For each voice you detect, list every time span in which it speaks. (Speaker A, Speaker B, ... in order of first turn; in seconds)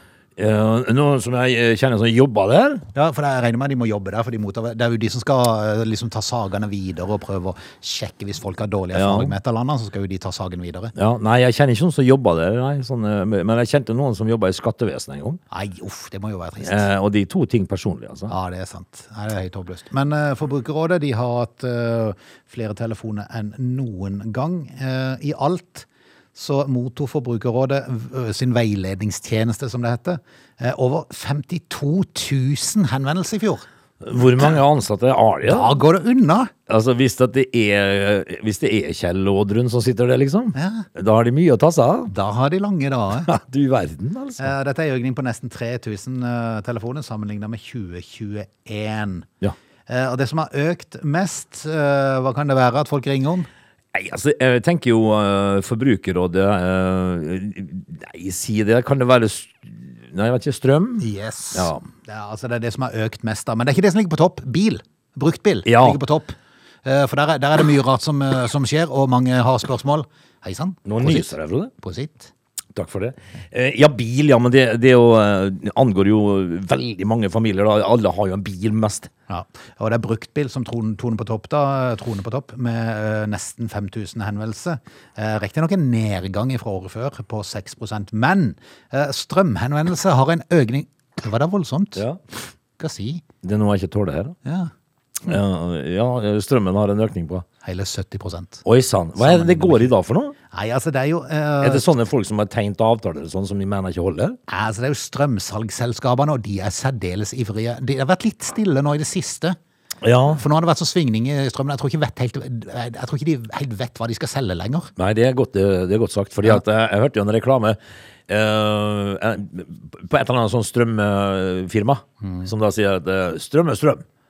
Speaker A: 0.4-2.9, 8.9-9.3, 10.9-15.4, 16.6-18.3, 34.0-35.8, 36.7-42.1, 43.2-44.5, 53.9-61.9, 65.6-66.0, 70.9-71.7, 72.7-79.1, 93.4-94.3, 95.2-97.4, 98.6-100.3, 101.6-104.4, 110.0-110.4, 115.0-117.8, 118.3-124.0
Speaker B: 2.9-10.9, 15.5-16.9, 18.3-33.6, 35.5-36.5, 40.5-40.9, 42.1-43.3, 44.4-49.3, 49.9-53.5, 61.0-72.3, 79.3-92.1, 92.8-93.2, 94.4-94.7, 97.6-98.6, 99.2-99.9, 100.5-101.9, 104.5-109.6, 110.3-114.9, 122.2-122.5